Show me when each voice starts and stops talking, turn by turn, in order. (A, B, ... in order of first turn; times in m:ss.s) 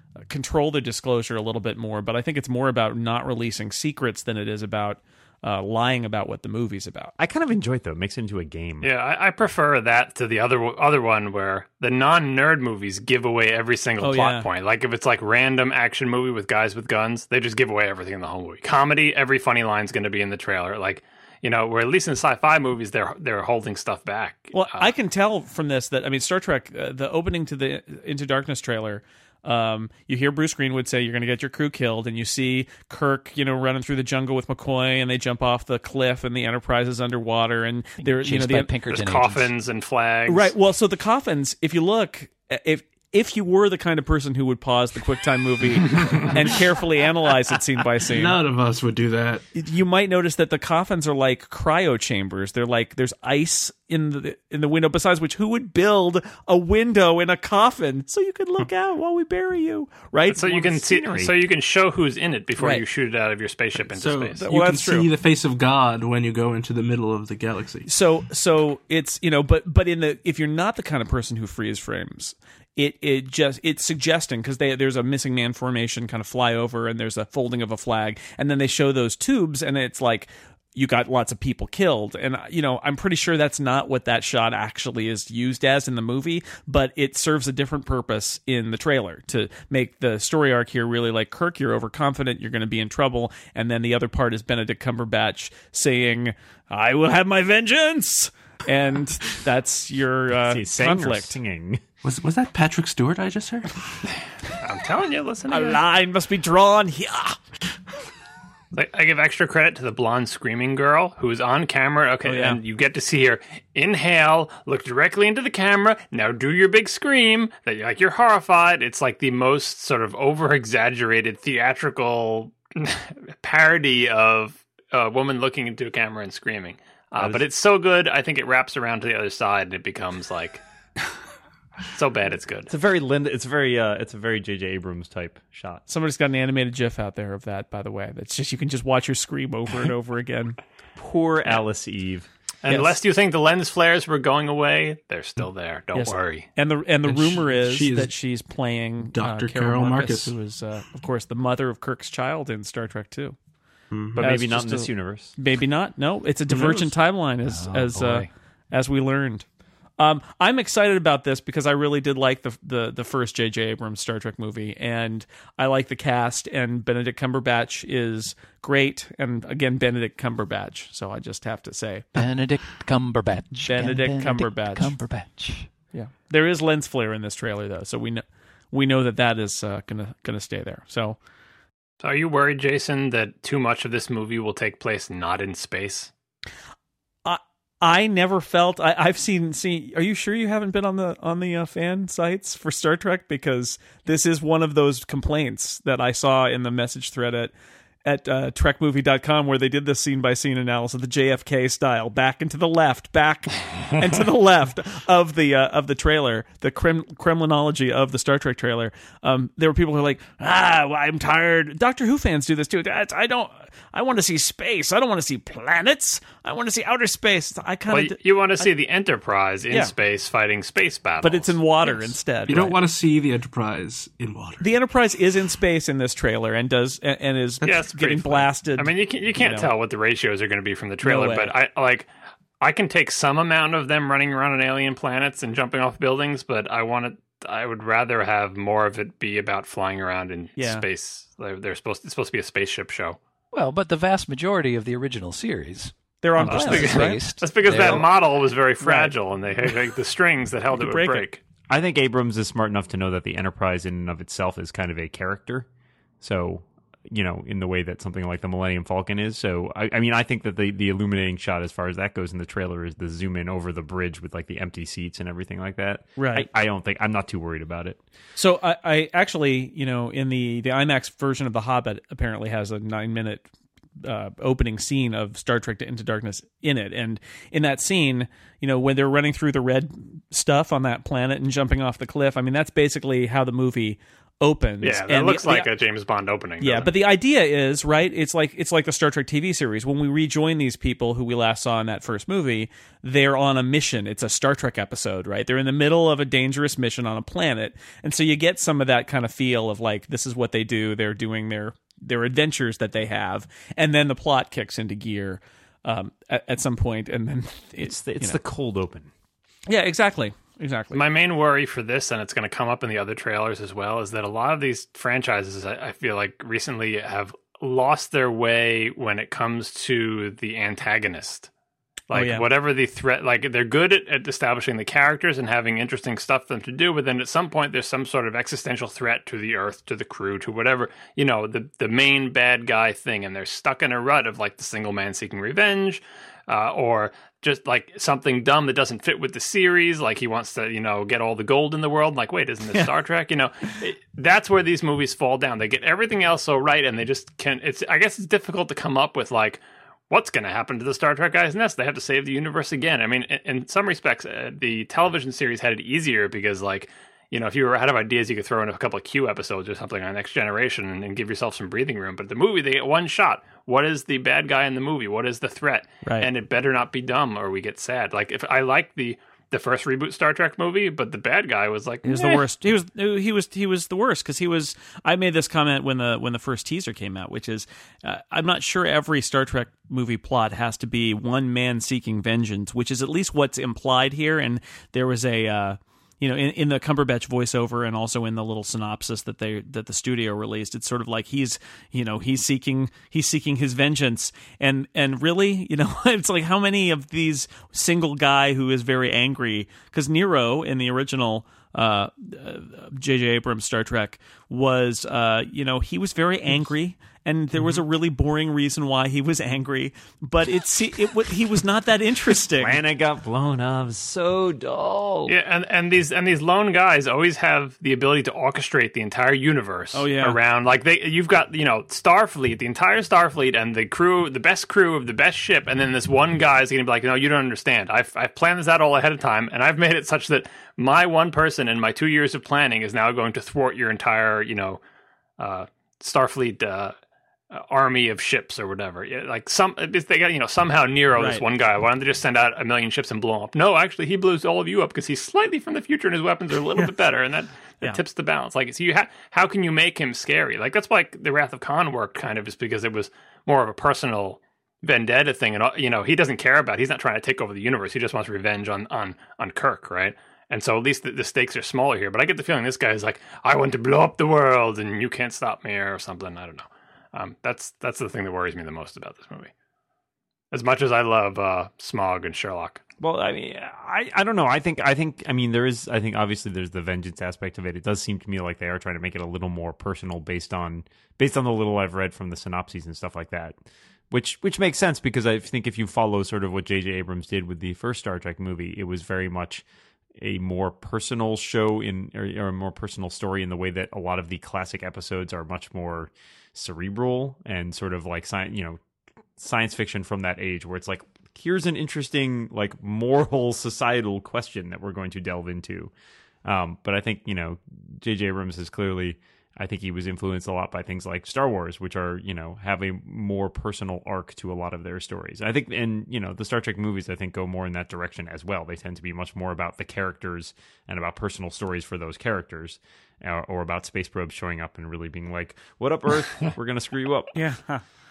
0:00.3-0:07.1 A
0:07.2-0:08.9 B
0:08.8-0:24.9 C
0:14.0-0:14.5 A
0:24.5-0:38.7 A
0:38.0-0:39.5 D
0:38.9-0:40.5 C
0:40.3-0:48.4 A
0:48.0-0:49.4 E
0:49.5-1:00.7 A
1:00.3-1:04.4 C
1:00.6-1:01.3 B
1:03.9-1:07.9 E
1:04.4-1:05.1 A
1:07.8-1:41.3 A
1:40.4-1:41.8 B
1:42.0-1:44.0 E
1:44.6-1:45.8 C
1:45.5-1:47.4 A
1:48.7-2:10.6 C
1:52.2-1:52.6 A
2:07.2-2:07.4 B
2:11.9-2:12.7 C
2:12.7-2:15.8 B
2:15.9-2:20.6 A
2:21.0-2:22.3 B
2:22.6-2:26.5 C
2:22.7-2:23.0 A
2:25.9-2:33.4 A
2:27.0-2:28.1 E
2:29.0-2:30.3 E
2:33.9-2:34.2 E
2:34.2-2:35.3 B
2:34.2-2:39.4 A
2:36.5-2:36.9 E
2:37.4-2:38.3 D
2:40.0-2:52.1 A
2:52.1-2:55.7 D
2:53.6-2:54.9 A
2:55.9-3:01.2 A
3:02.0-3:06.1 C
3:07.2-3:17.5 A
3:18.0-3:38.7 A
3:37.9-3:41.5 C
3:41.2-3:42.8 A
3:42.4-3:44.7 E
3:44.6-3:49.7 A
3:47.6-3:52.1 C
3:51.0-3:51.5 A
3:52.6-4:03.2 C
4:00.6-4:00.8 A
4:03.5-4:08.0 D
4:06.2-4:08.0 A
4:06.4-4:11.4 C
4:08.8-4:09.1 A
4:10.7-4:11.3 A
4:11.7-4:15.6 B
4:16.2-4:28.0 B
4:26.2-4:26.5 A
4:28.4-4:33.5 A
4:34.0-4:45.7 A
4:44.8-4:46.9 C
4:46.6-5:08.4 A
5:07.8-5:09.1 B
5:09.7-5:11.0 A
5:10.9-5:21.5 C
5:22.1-6:12.4 C
5:22.1-5:22.5 A
6:06.0-6:06.3 A
6:12.0-6:52.8 A
6:52.6-6:55.4 B
6:55.3-7:14.8 C
6:59.9-7:00.4 A
7:15.4-7:16.9 C
7:17.5-7:49.5 C
7:21.2-7:21.4 A
7:50.5-7:52.8 C
7:53.0-8:03.6 B
8:04.1-8:09.6 B
8:10.2-8:18.8 B
8:19.4-8:25.9 B
8:26.4-8:47.3 B
8:47.3-8:47.8 A